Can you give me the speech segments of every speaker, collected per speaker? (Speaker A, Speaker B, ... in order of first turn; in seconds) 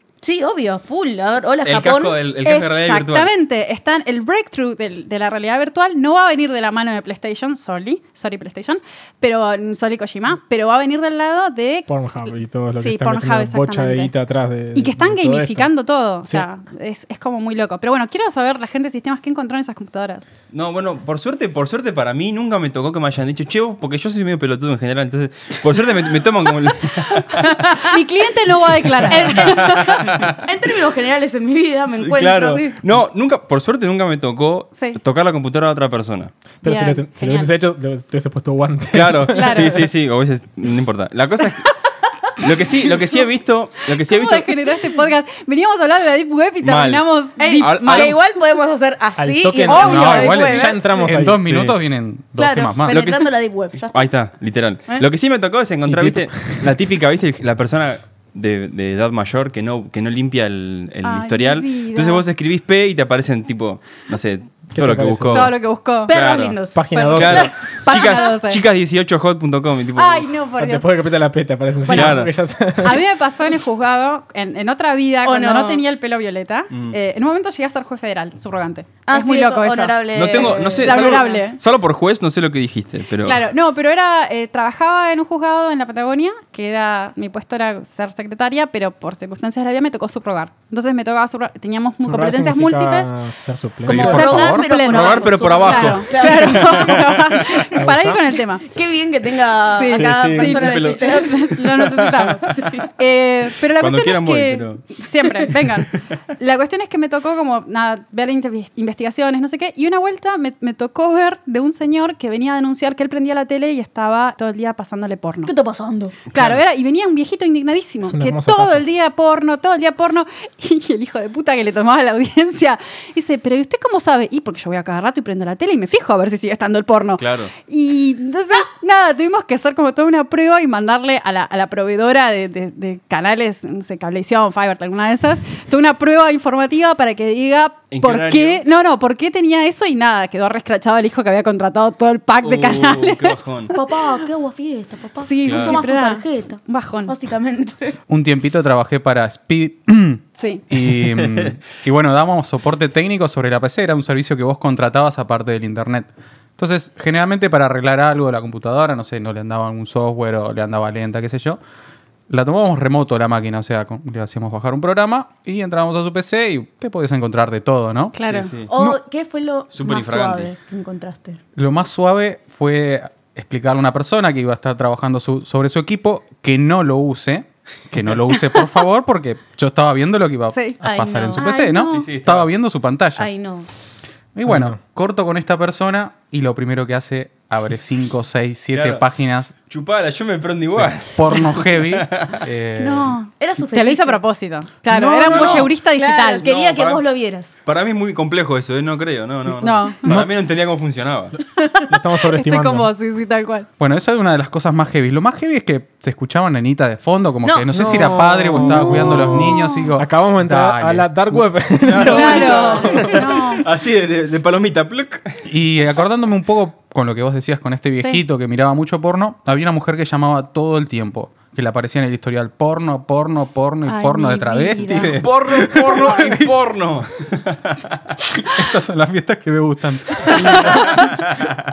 Speaker A: 0.2-2.2, 27.5-27.8, 29.1-32.7, 47.4-51.1, 52.4-54.1, 66.1-68.2, 75.2-75.8, 79.0-81.5, 93.8-97.0, 98.6-101.8, 102.4-102.9, 115.5-116.1, 143.7-148.0, 168.7-171.4, 180.8-181.9, 183.2-183.7, 193.4-194.2, 195.3-197.6, 207.4-209.6
Speaker B: 1.6-3.3, 20.5-27.5, 29.1-30.4, 31.9-36.3, 38.9-41.7, 42.4-44.5, 46.6-47.0, 47.6-48.1, 51.5-51.7, 52.9-65.5, 66.1-66.6, 67.1-70.3, 71.9-72.3, 76.7-77.0, 80.1-83.4, 94.8-97.1, 99.9-101.2, 103.8-105.0, 127.2-127.5, 137.9-138.6, 142.4-143.7, 145.4-145.8, 151.2-151.5, 168.3-168.7, 169.7-170.5, 181.9-182.5, 188.7-189.1, 189.7-192.4, 195.3-195.7, 196.4-197.0, 197.6-201.3, 211.8-215.4, 225.2-227.8
Speaker C: 2.4-14.1, 14.7-20.3, 27.3-29.9, 34.7-35.0, 36.6-37.5, 39.3-39.8, 44.0-48.2, 49.6-50.5, 61.0-62.2, 65.3-66.2, 66.9-68.6, 69.9-70.9, 71.8-72.2, 72.8-81.6, 83.2-93.1, 94.0-98.6, 99.7-115.5, 116.3-143.9, 145.2-147.1, 150.4-150.6, 168.1-168.5, 180.5-180.8, 181.3-182.0, 192.8-196.4, 199.6-200.0, 201.6-203.7, 212.1-213.6, 217.9-218.2, 223.8-225.2, 230.6-231.0
Speaker D: 11.9-15.7, 36.6-39.7, 49.2-51.4, 55.9-56.7, 64.7-65.5, 66.7-67.5, 70.6-73.0, 92.0-94.4, 97.8-98.2, 118.0-118.8, 184.4-184.8, 201.9-202.9, 208.3-209.2, 210.0-213.2
Speaker E: 49.7-53.0, 93.9-94.7, 148.1-161.6, 162.3-169.0, 171.6-183.3, 184.3-189.5, 190.8-193.2, 194.9-195.7, 203.8-211.9, 215.4-226.5, 228.4-231.3